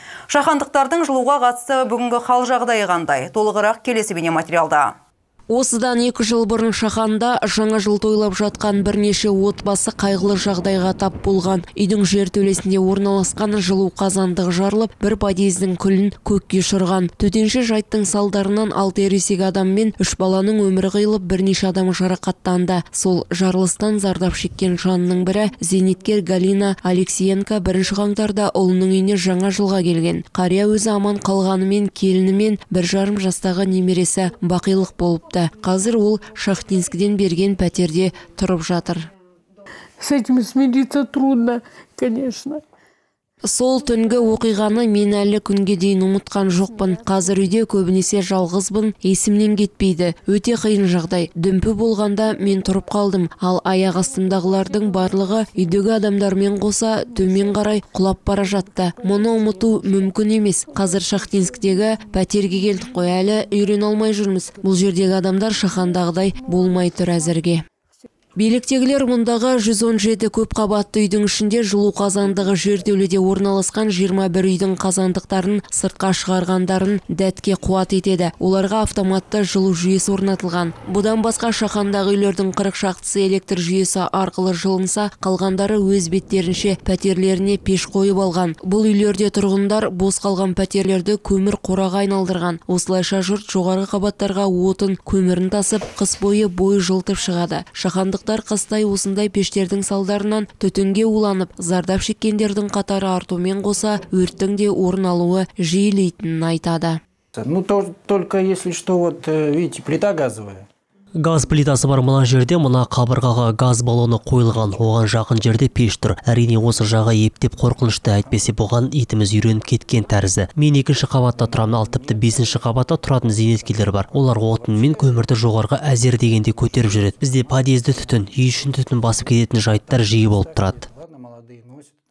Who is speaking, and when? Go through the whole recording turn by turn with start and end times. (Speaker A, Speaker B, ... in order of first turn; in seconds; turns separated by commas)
Speaker A: 0.3-4.9, Speaker B: 5.5-39.1, Speaker C: 40.0-42.6, Speaker B: 43.4-67.6, Speaker B: 68.4-107.0, Speaker D: 107.3-110.7, Speaker E: 111.1-130.8, Speaker D: 121.2-131.9